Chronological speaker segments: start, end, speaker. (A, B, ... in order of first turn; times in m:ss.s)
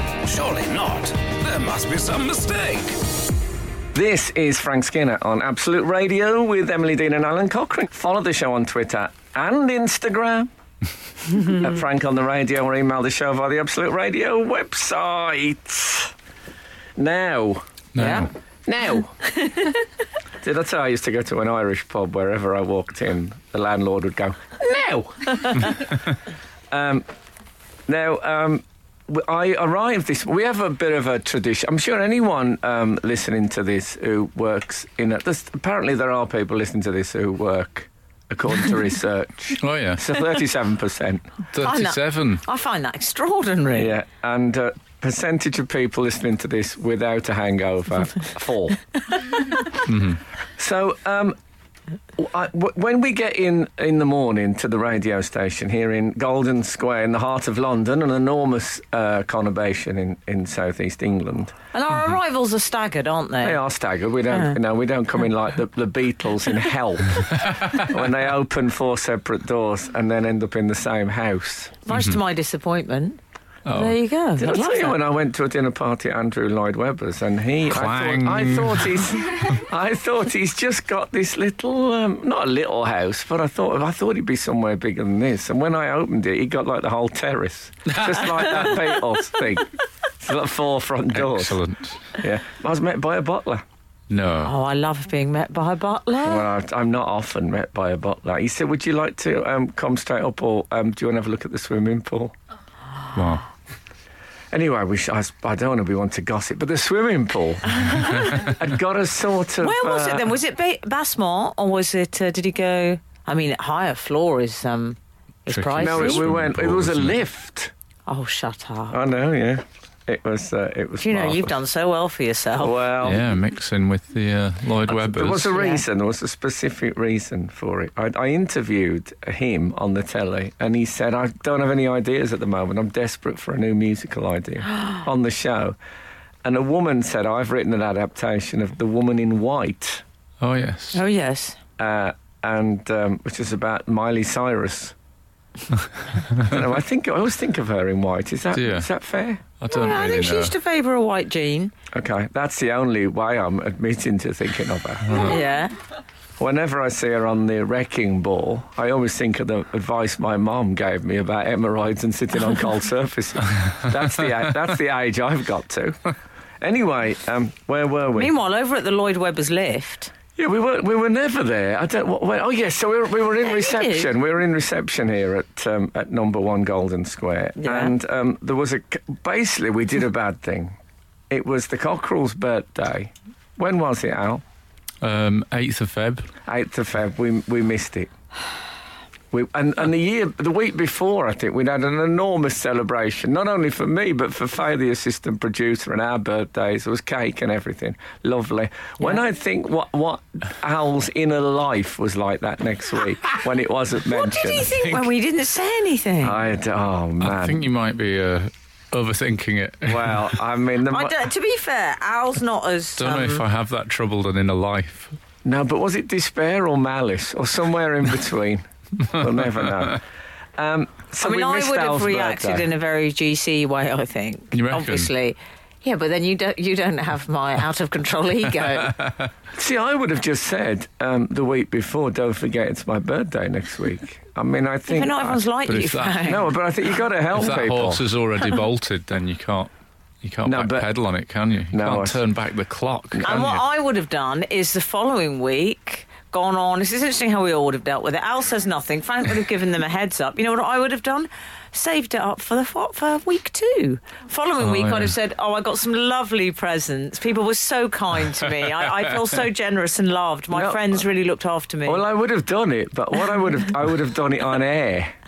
0:00.2-0:03.0 A
0:03.9-0:10.5 B
0:11.3-0:16.1 B
0:17.0-0:19.2 B
0:17.9-0:18.3 C
0:18.0-0:18.3 D
0:19.3-0:19.7 D
0:20.4-0:26.0 B
0:26.7-0:27.0 B
0:27.9-0:41.3 B
0:39.6-0:40.0 C
0:41.5-0:42.4 C
0:41.6-0:43.9 D
0:43.8-0:48.8 B
0:49.8-0:50.2 C
0:50.6-0:51.4 B
0:52.2-1:01.5 B
1:01.7-1:03.6 D
1:03.4-1:11.8 B
1:11.8-1:15.0 D
1:11.9-1:12.2 C
1:13.6-1:14.0 C
1:14.4-1:31.6 B
1:17.7-1:19.2 C
1:27.9-1:28.8 C
1:31.1-1:32.1 C
1:32.2-1:33.6 B
1:34.1-1:34.5 C
1:34.4-1:36.5 D
1:36.2-1:42.3 B
1:43.1-1:43.4 C
1:44.5-1:50.3 B
1:47.8-1:48.3 D
1:49.6-1:56.3 D
1:55.5-1:57.2 C
1:55.8-1:57.7 B
1:58.1-1:59.0 D
1:58.9-2:01.6 B
2:01.0-2:02.8 D
2:02.6-2:03.3 B
2:03.0-2:05.6 C
2:04.9-2:15.8 B
2:05.5-2:05.8 D
2:16.4-2:20.0 B
2:20.4-2:21.0 C
2:20.9-2:21.6 D
2:21.8-2:24.9 B
2:26.3-2:29.4 B
2:28.5-2:28.9 C
2:29.6-2:30.5 C
2:29.7-2:31.7 D
2:31.9-2:35.3 B
2:35.2-2:35.7 D
2:36.4-2:48.3 B
2:48.1-2:50.1 D
2:50.4-3:00.8 B
2:53.5-2:54.1 D
2:57.6-2:57.9 D
3:01.3-3:04.4 B
3:05.0-3:06.3 C
3:06.4-3:08.1 B
3:09.3-3:24.7 B
3:24.0-3:26.4 D
3:26.2-3:27.6 B
3:27.2-3:30.4 C
3:29.8-3:31.2 B
3:30.8-3:33.4 D
3:33.0-3:35.2 C
3:35.4-3:40.0 B
3:40.6-3:42.7 B
3:41.2-3:49.0 D
3:44.5-3:45.1 C
3:48.8-3:49.2 C
3:49.5-3:55.4 B
3:54.9-3:56.5 D
3:55.6-3:56.4 C
3:56.2-3:58.0 B
3:57.3-3:59.7 C
4:00.2-4:03.6 C
4:00.4-4:00.9 B
4:01.7-4:02.2 B
4:03.2-4:22.0 D
4:14.6-4:15.1 C
4:20.5-4:21.0 B
4:21.8-4:25.2 B